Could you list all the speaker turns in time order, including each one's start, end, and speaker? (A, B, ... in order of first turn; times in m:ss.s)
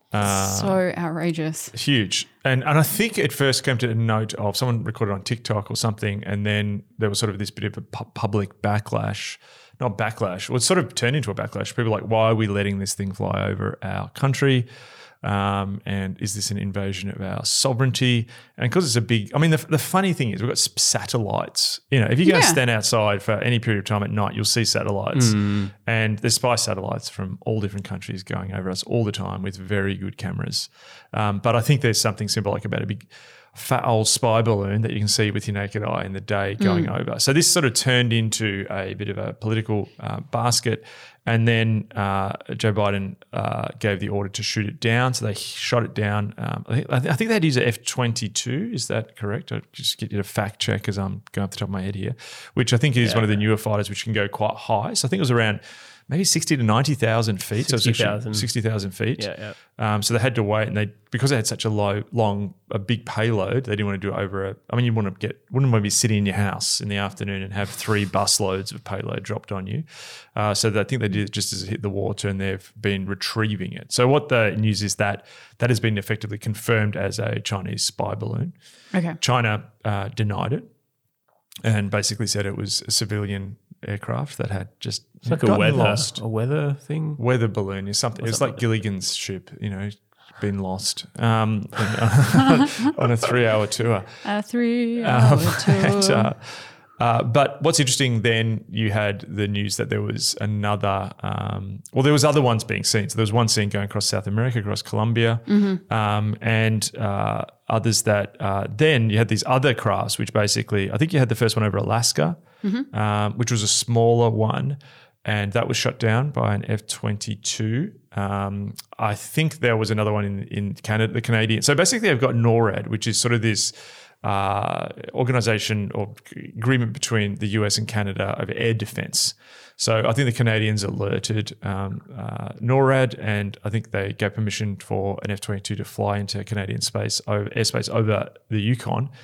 0:00.1-0:00.8 A
0:00.2-0:01.7 B
0:01.7-0:14.7 A
0:15.2-1:18.5 A
0:22.2-0:22.6 B
0:25.1-0:25.7 C
0:36.6-0:36.9 B
0:53.0-0:53.4 C
0:57.6-0:58.5 C
0:59.2-0:59.6 C
1:18.9-1:19.2 B
1:19.2-1:20.7 A
1:21.6-1:26.2 A
1:25.3-1:27.2 C
1:27.2-1:34.2 A
1:28.2-1:28.5 C
1:34.2-1:36.3 B
1:35.0-1:52.4 A
1:45.5-1:45.8 B
1:52.6-1:52.9 B
1:52.9-2:19.1 A